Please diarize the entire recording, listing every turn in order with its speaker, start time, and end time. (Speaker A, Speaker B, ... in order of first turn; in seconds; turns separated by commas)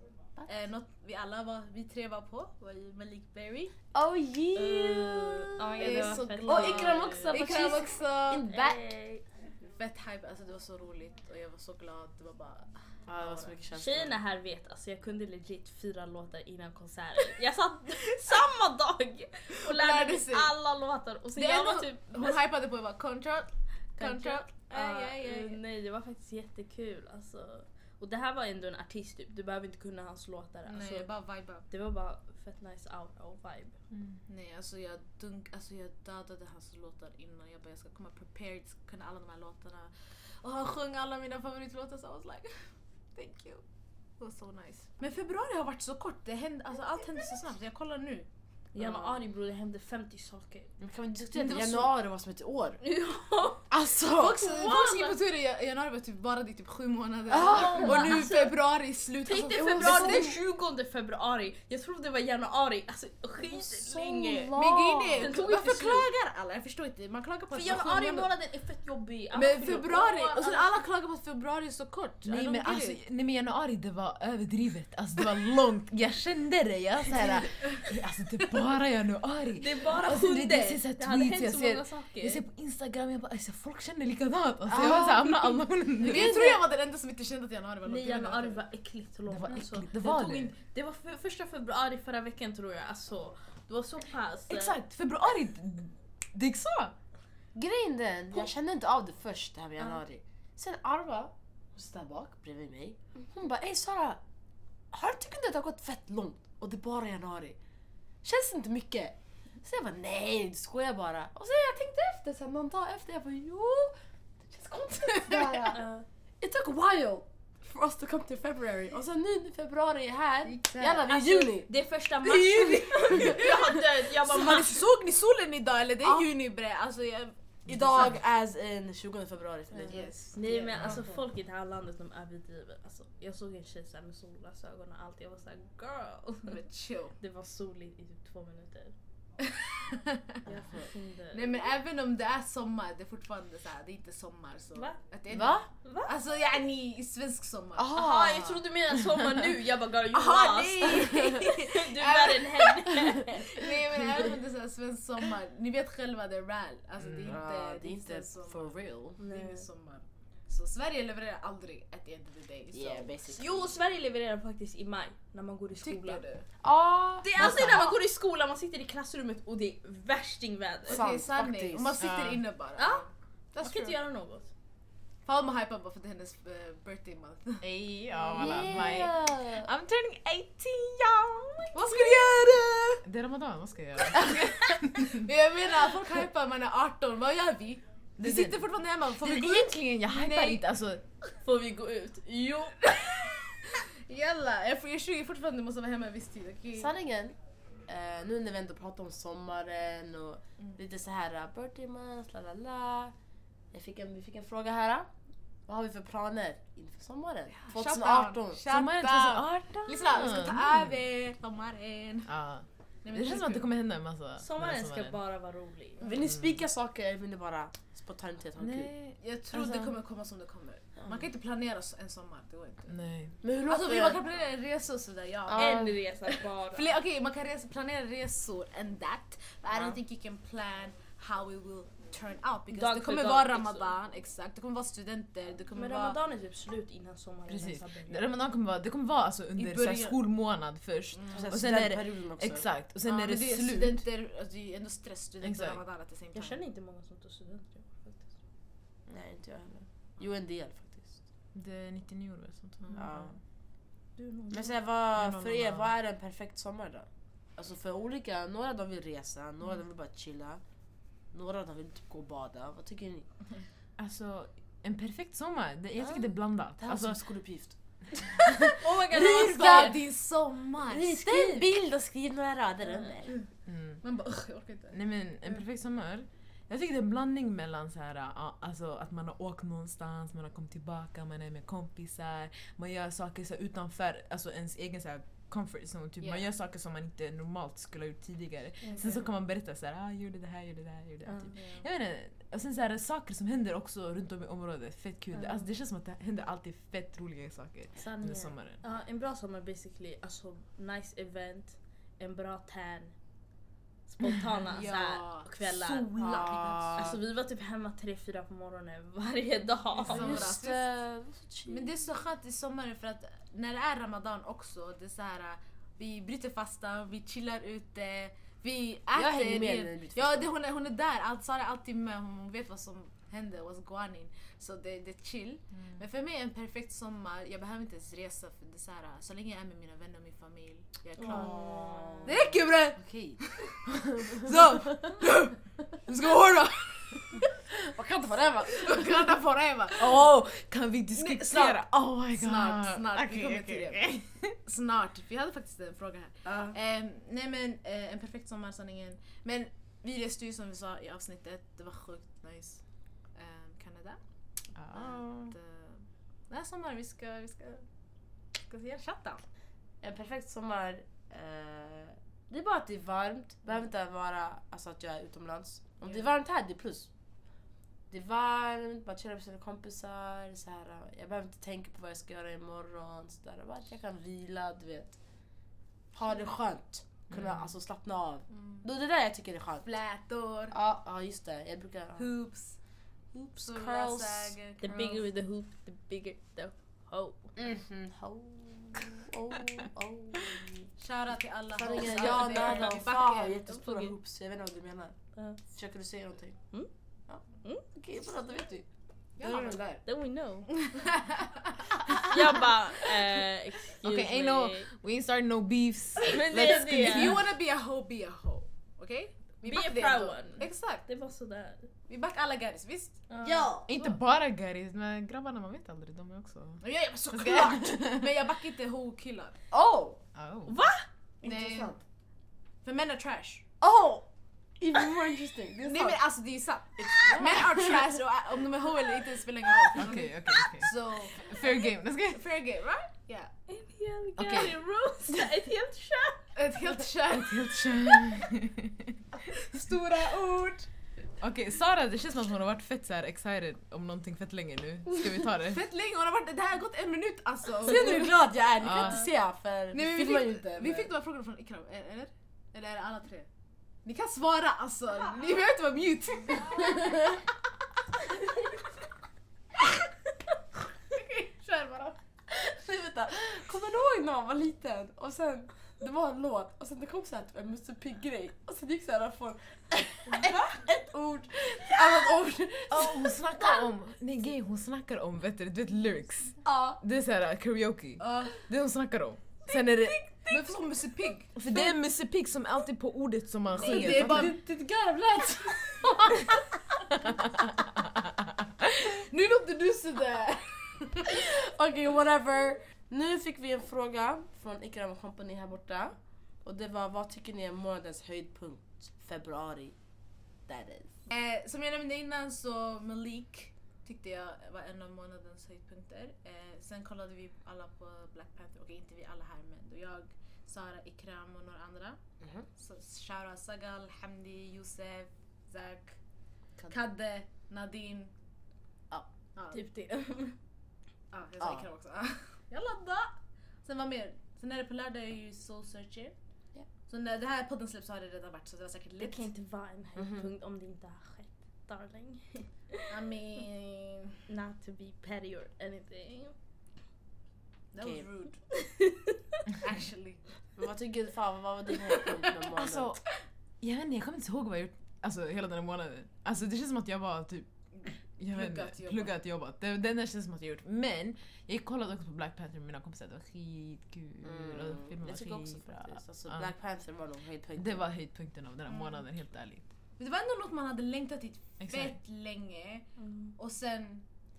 Speaker A: 0.5-3.7, Speaker B: 3.9-8.9, Speaker C: 4.5-7.8, Speaker A: 5.8-8.5, Speaker C: 8.5-9.2, Speaker A: 9.7-13.6, Speaker B: 13.1-14.2, Speaker C: 13.7-22.4, Speaker A: 19.5-20.5, Speaker A: 21.3-25.6, Speaker C: 24.0-31.1, Speaker A: 30.6-31.7, Speaker C: 31.7-33.7, Speaker D: 33.9-34.2, Speaker A: 34.3-42.5, Speaker A: 43.1-43.6, Speaker A: 44.2-49.2, Speaker C: 48.7-50.7, Speaker B: 50.8-52.8, Speaker A: 51.3-51.9, Speaker C: 52.8-53.7, Speaker B: 53.7-54.4, Speaker A: 54.1-60.3, Speaker C: 54.4-55.2, Speaker B: 57.3-58.2, Speaker C: 57.4-58.7, Speaker C: 59.2-64.6, Speaker B: 59.5-60.4, Speaker B: 63.4-65.3, Speaker A: 64.5-68.3, Speaker C: 65.2-66.1, Speaker C: 67.5-70.8, Speaker A: 69.3-73.0, Speaker D: 72.2-86.3, Speaker A: 77.1-77.8, Speaker C: 79.6-82.4, Speaker B: 84.7-86.7, Speaker A: 86.0-88.6, Speaker C: 87.8-94.8, Speaker D: 89.3-90.5, Speaker D: 94.5-96.9, Speaker B: 97.5-104.2, Speaker B: 104.9-107.6, Speaker B: 108.2-115.8, Speaker A: 115.0-115.7, Speaker C: 115.7-116.0, Speaker B: 116.4-123.7, Speaker A: 120.4-121.1, Speaker C: 121.0-124.9, Speaker A: 123.1-128.2, Speaker B: 126.0-126.3, Speaker B: 127.7-130.1, Speaker D: 127.7-128.2, Speaker A: 129.8-131.1, Speaker C: 129.9-136.6, Speaker B: 130.7-131.2, Speaker D: 130.7-131.0, Speaker A: 136.4-137.2, Speaker C: 137.2-138.9, Speaker A: 139.4-140.4, Speaker C: 140.4-141.7, Speaker B: 140.5-140.9, Speaker A: 141.3-147.9, Speaker C: 144.7-145.0, Speaker B: 145.3-145.7, Speaker C: 145.8-146.1, Speaker B: 147.7-148.7, Speaker C: 147.9-154.3, Speaker A: 150.1-152.9, Speaker A: 153.5-163.1, Speaker D: 157.0-157.4, Speaker B: 157.2-159.2, Speaker C: 159.2-159.6, Speaker B: 162.7-163.7, Speaker C: 163.3-166.2, Speaker A: 165.8-166.4, Speaker B: 166.6-167.8, Speaker C: 167.2-171.1, Speaker D: 167.4-167.9, Speaker A: 170.9-174.0, Speaker B: 170.9-171.9, Speaker D: 172.0-172.4, Speaker C: 172.8-173.0, Speaker C: 173.6-174.5, Speaker A: 175.2-177.6, Speaker D: 177.6-181.7, Speaker B: 178.2-179.7, Speaker A: 181.7-183.0, Speaker C: 182.0-182.3, Speaker D: 183.0-185.2, Speaker A: 184.2-190.6, Speaker D: 188.2-188.6, Speaker D: 189.2-191.0, Speaker C: 191.4-193.4, Speaker A: 193.8-196.9, Speaker B: 196.7-197.3, Speaker B: 197.9-203.1, Speaker B: 203.7-205.1, Speaker B: 205.7-208.7, Speaker A: 207.5-212.3, Speaker D: 208.7-211.0, Speaker D: 212.3-215.2, Speaker A: 213.0-213.7, Speaker C: 214.4-216.1, Speaker B: 216.0-218.9, Speaker D: 216.3-216.6, Speaker D: 218.6-220.0, Speaker A: 219.2-222.9, Speaker D: 222.9-223.3, Speaker B: 223.4-224.2, Speaker A: 223.7-236.2, Speaker B: 225.4-226.0, Speaker C: 225.5-226.9, Speaker C: 232.7-234.0, Speaker C: 235.7-238.3, Speaker D: 237.5-244.0, Speaker A: 239.6-240.2, Speaker A: 241.1-241.4, Speaker B: 241.3-242.6, Speaker A: 243.0-246.6, Speaker D: 245.4-245.8, Speaker C: 246.3-248.3, Speaker B: 249.1-251.2, Speaker D: 251.5-253.4, Speaker B: 252.9-253.4, Speaker C: 254.2-254.8, Speaker B: 254.5-260.6, Speaker D: 255.2-255.9, Speaker B: 261.3-263.3, Speaker D: 264.0-267.2, Speaker B: 266.8-267.8, Speaker B: 268.4-270.0, Speaker C: 268.8-270.0, Speaker A: 269.1-271.2, Speaker B: 270.9-273.3, Speaker C: 271.0-271.7, Speaker D: 273.6-274.0, Speaker A: 274.0-275.5, Speaker D: 274.9-298.8, Speaker A: 286.2-286.5, Speaker C: 288.8-289.2, Speaker C: 291.2-291.6, Speaker A: 291.5-291.9, Speaker C: 295.3-295.7, Speaker C: 298.0-303.1, Speaker C: 304.1-310.4, Speaker A: 304.7-305.5, Speaker D: 305.8-307.1, Speaker B: 306.1-307.1, Speaker A: 306.4-307.0, Speaker A: 309.9-310.9, Speaker B: 310.1-311.9, Speaker A: 311.7-331.5, Speaker B: 319.1-320.5, Speaker C: 331.2-332.3, Speaker B: 331.2-333.4, Speaker A: 332.2-333.8, Speaker D: 333.9-334.9, Speaker A: 334.3-337.2, Speaker B: 337.9-339.3, Speaker A: 338.7-340.2, Speaker D: 340.0-344.5, Speaker A: 341.1-341.8, Speaker A: 342.3-344.0, Speaker A: 344.6-352.8, Speaker B: 346.4-346.8, Speaker A: 353.3-354.2, Speaker D: 354.8-355.5, Speaker A: 354.9-357.8, Speaker A: 358.6-359.4, Speaker B: 360.0-367.1, Speaker B: 368.1-375.1, Speaker B: 376.1-379.9, Speaker D: 377.3-377.7, Speaker A: 378.5-378.8, Speaker A: 379.8-380.8, Speaker B: 380.7-382.3, Speaker A: 382.1-382.8, Speaker B: 383.3-385.2, Speaker A: 383.6-384.8, Speaker C: 384.8-387.5, Speaker B: 387.6-390.9, Speaker A: 391.0-393.9, Speaker B: 391.7-395.1, Speaker B: 395.7-396.6, Speaker B: 397.3-398.9, Speaker A: 399.4-400.0, Speaker B: 399.4-399.9, Speaker C: 400.0-400.7, Speaker A: 400.7-402.6, Speaker C: 402.1-404.9, Speaker D: 404.0-407.4, Speaker C: 406.2-407.4, Speaker A: 406.6-411.0, Speaker C: 409.6-411.9, Speaker A: 412.1-413.2, Speaker C: 413.3-413.7, Speaker B: 413.4-413.9, Speaker D: 413.9-416.8, Speaker A: 416.8-419.6, Speaker D: 417.3-418.3, Speaker B: 419.7-420.2, Speaker D: 420.4-420.8, Speaker C: 420.7-421.1, Speaker B: 421.4-422.0, Speaker A: 421.4-421.9, Speaker A: 422.8-423.6, Speaker B: 423.8-424.2, Speaker B: 424.8-426.3, Speaker A: 425.9-433.5, Speaker B: 427.0-428.1, Speaker D: 429.9-432.4, Speaker C: 433.7-436.5, Speaker D: 434.4-434.8, Speaker A: 436.5-438.2, Speaker D: 437.3-439.2, Speaker A: 439.5-440.9, Speaker D: 441.4-445.8, Speaker A: 445.7-448.4, Speaker B: 447.8-451.1, Speaker D: 448.8-449.2, Speaker A: 449.9-453.5, Speaker A: 454.0-457.5, Speaker B: 456.8-457.3, Speaker A: 461.1-462.2, Speaker B: 462.5-473.9, Speaker D: 472.9-480.3, Speaker B: 476.6-477.0, Speaker A: 478.2-478.6, Speaker A: 480.4-481.6, Speaker D: 481.6-484.5, Speaker A: 483.7-484.6, Speaker B: 483.7-486.5, Speaker A: 486.0-486.5, Speaker A: 489.0-491.4, Speaker B: 491.3-499.9, Speaker B: 500.7-501.1, Speaker A: 501.3-512.2, Speaker B: 512.4-512.7, Speaker A: 512.8-516.2, Speaker A: 516.9-518.3, Speaker C: 519.7-520.6, Speaker A: 521.3-526.3, Speaker B: 521.6-521.9, Speaker A: 527.1-529.5, Speaker C: 529.2-533.1, Speaker B: 530.1-530.5, Speaker A: 533.1-534.4, Speaker C: 534.5-536.5, Speaker A: 537.9-538.6, Speaker B: 538.0-538.3, Speaker C: 538.8-539.4, Speaker A: 539.8-540.4, Speaker B: 540.8-543.2, Speaker D: 542.8-543.2, Speaker D: 543.8-547.7, Speaker A: 547.9-549.4, Speaker D: 548.4-556.7, Speaker B: 554.4-558.0, Speaker D: 557.8-559.8, Speaker A: 558.9-559.2, Speaker A: 560.2-564.2, Speaker D: 561.8-562.1, Speaker C: 563.2-563.5